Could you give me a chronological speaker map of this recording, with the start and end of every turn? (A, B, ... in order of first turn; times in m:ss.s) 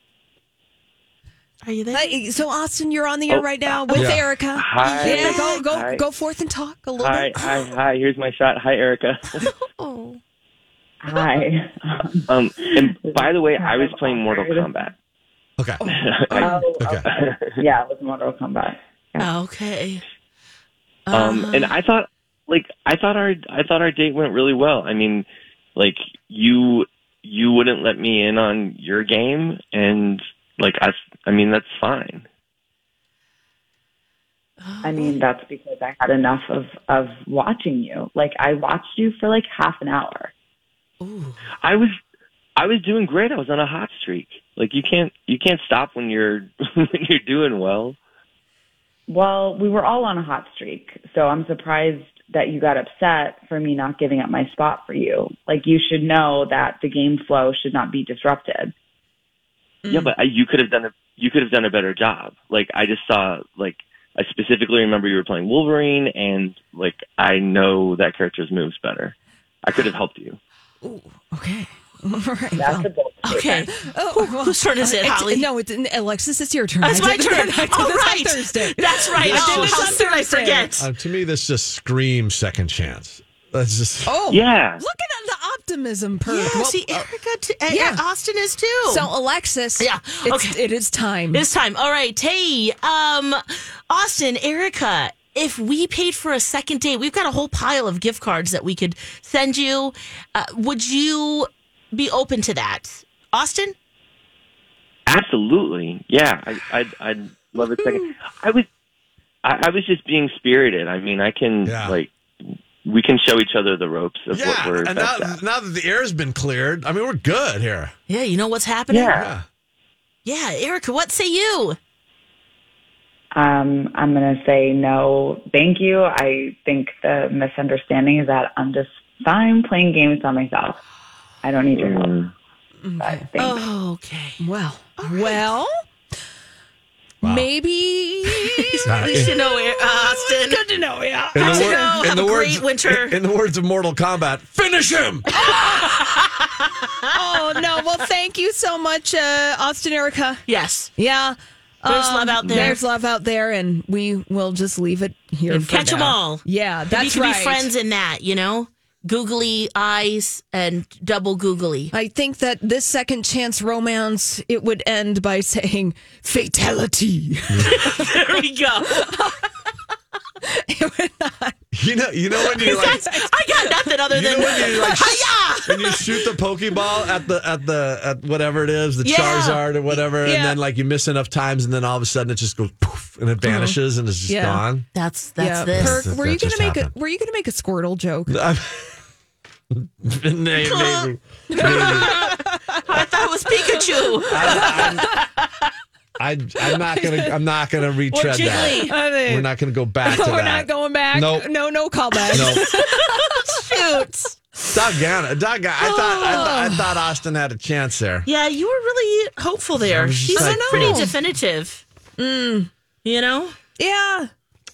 0:01.6-0:02.2 A
0:01.9-0:07.7 B
0:03.3-0:06.0 C
0:04.0-0:04.2 D
0:05.0-0:05.6 A
0:07.0-0:09.5 C
0:09.4-0:10.2 A
0:11.0-0:14.7 E
0:12.3-0:14.9 C
0:15.6-0:15.8 D
0:15.8-0:16.6 B
0:15.8-0:17.6 C
0:16.4-0:17.0 E
0:16.8-0:17.1 D
0:17.6-0:19.3 E
0:19.2-0:20.0 A
0:21.1-0:21.7 A
0:21.1-0:32.2 C
0:34.6-0:35.2 A
0:34.8-0:40.3 E
0:41.0-0:41.4 A
0:41.6-0:41.9 C
0:42.6-0:48.0 C
0:49.1-0:58.7 E
0:59.8-1:00.1 B
0:59.9-1:10.4 C
1:10.8-1:12.8 B
1:12.6-1:13.6 E
1:13.2-1:15.5 A
1:13.7-1:20.7 B
1:16.8-1:20.9 A
1:19.3-1:19.8 D
1:20.8-1:24.2 D
1:24.1-1:27.1 B
1:24.3-1:24.8 C
1:26.3-1:29.1 A
1:27.7-1:28.0 B
1:28.8-1:31.5 B
1:29.8-1:30.6 A
1:31.3-1:43.8 A
1:45.1-1:48.6 C
1:49.4-1:55.4 C
1:51.6-1:52.0 D
1:54.3-1:57.9 D
1:58.1-1:59.2 A
1:58.9-1:59.4 C
1:59.1-1:59.4 D
2:00.2-2:01.8 A
2:03.3-2:10.8 E
2:11.4-2:12.1 E
2:11.8-2:12.3 C
2:12.8-2:13.3 B
2:13.0-2:13.6 E
2:13.4-2:14.4 A
2:14.4-2:15.7 B
2:15.0-2:15.4 A
2:17.2-2:17.5 D
2:17.2-2:22.0 B
2:18.3-2:20.6 A
2:18.8-2:19.3 D
2:21.3-2:25.3 D
2:21.4-2:23.2 A
2:25.4-2:26.0 B
2:25.5-2:26.2 A
2:27.1-2:30.4 B
2:30.5-2:30.9 A
2:31.0-2:37.7 B
2:31.9-2:32.8 A
2:32.4-2:32.8 C
2:35.5-2:41.9 A
2:41.9-2:48.1 B
2:47.6-2:49.4 A
2:50.6-2:51.6 B
2:51.7-2:53.0 D
2:52.4-2:55.0 B
2:52.6-2:56.0 A
2:54.1-3:04.9 D
2:59.0-2:59.8 A
3:00.1-3:00.6 B
3:03.4-3:04.7 B
3:04.9-3:06.1 A
3:05.4-3:08.4 B
3:05.8-3:06.9 D
3:08.3-3:09.0 D
3:09.7-3:12.2 D
3:10.6-3:15.7 A
3:11.5-3:12.8 B
3:13.7-3:15.2 B
3:14.3-3:15.1 D
3:16.2-3:21.5 D
3:16.7-3:17.3 B
3:18.1-3:19.0 A
3:18.4-3:24.0 B
3:22.2-3:24.4 A
3:22.3-3:22.7 D
3:24.7-3:28.3 D
3:25.8-3:26.6 A
3:26.0-3:26.9 B
3:28.3-3:31.8 A
3:29.8-3:31.1 D
3:30.3-3:31.2 B
3:32.2-3:32.7 B
3:33.0-3:33.6 A
3:33.8-3:34.3 B